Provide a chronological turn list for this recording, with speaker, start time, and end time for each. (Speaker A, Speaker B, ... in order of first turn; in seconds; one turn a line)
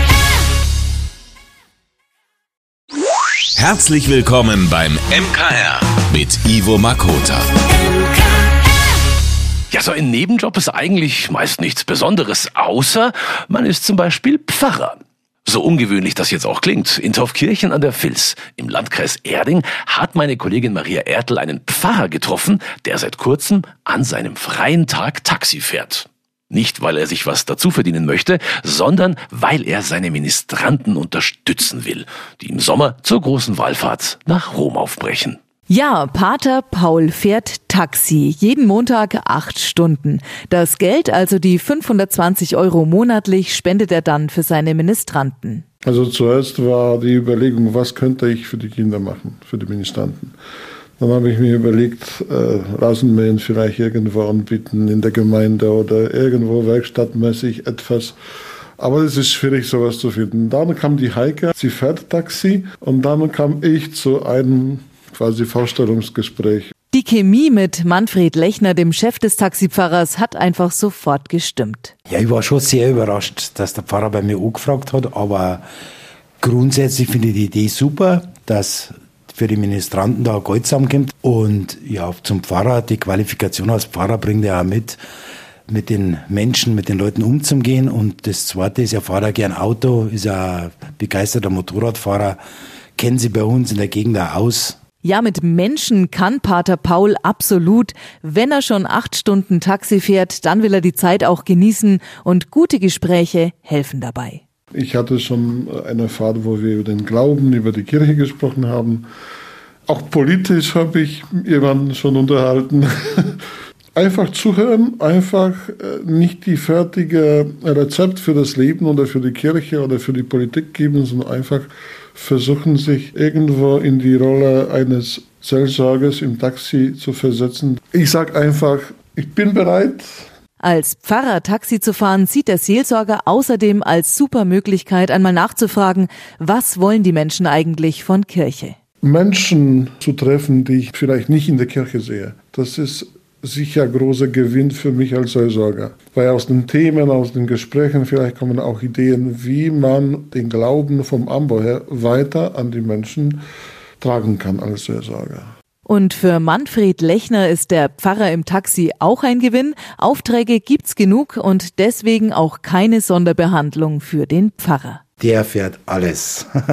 Speaker A: 3.5-7.5
Speaker B: 9.7-35.4
Speaker C: 35.7-45.6
Speaker D: 45.8-50.3
Speaker D: 51.0-58.2
Speaker D: 58.8-66.7
Speaker C: 66.9-71.9
Speaker E: 72.1-75.6
Speaker E: 76.4-85.0
Speaker E: 85.7-92.4
Speaker E: 93.0-94.8
Speaker C: 95.0-104.4
Speaker D: 104.7-109.1
Speaker D: 109.8-113.4
Speaker D: 113.9-130.2
Speaker C: 130.6-138.8
Speaker D: 139.0-153.4
Speaker D: 154.0-155.5
Speaker C: 155.8-165.0
Speaker E: 165.2-166.5